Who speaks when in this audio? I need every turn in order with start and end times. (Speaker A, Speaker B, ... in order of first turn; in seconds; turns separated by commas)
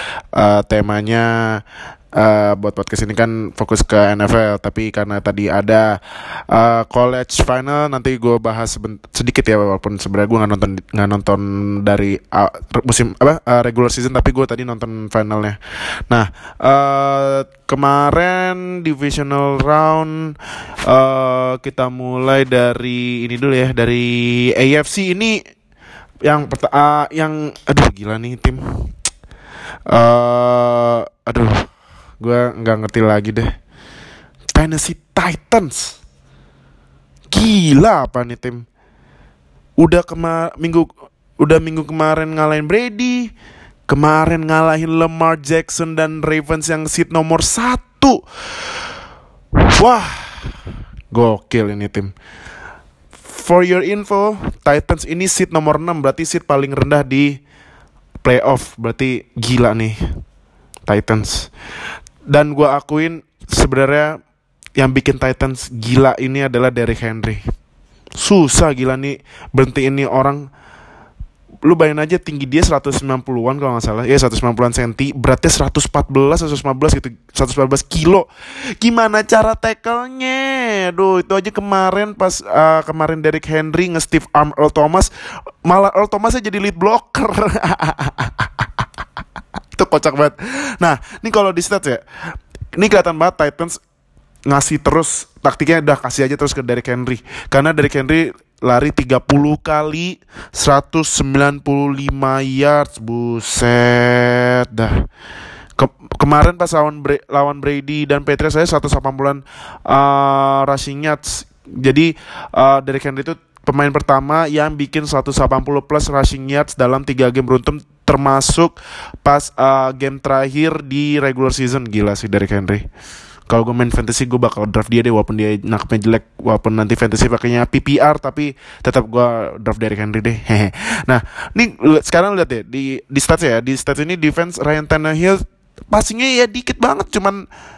Speaker A: 0.3-1.6, Speaker A: 2.1-25.4, Speaker A: 26.2-28.6, Speaker A: 29.9-31.6, Speaker A: 32.2-33.5, Speaker A: 34.5-36.0, Speaker A: 37.3-38.6, Speaker A: 39.8-43.3, Speaker A: 43.9-48.2, Speaker A: 49.6-50.6, Speaker A: 51.1-52.1, Speaker A: 53.3-57.4, Speaker A: 58.2-60.0, Speaker A: 60.9-61.5, Speaker A: 62.3-64.2, Speaker A: 64.8-67.4, Speaker A: 68.2-70.5, Speaker A: 71.6-85.1, Speaker A: 85.6-88.7, Speaker A: 89.7-92.0, Speaker A: 92.7-93.8, Speaker A: 94.5-105.0, Speaker A: 105.8-122.8, Speaker A: 123.5-137.4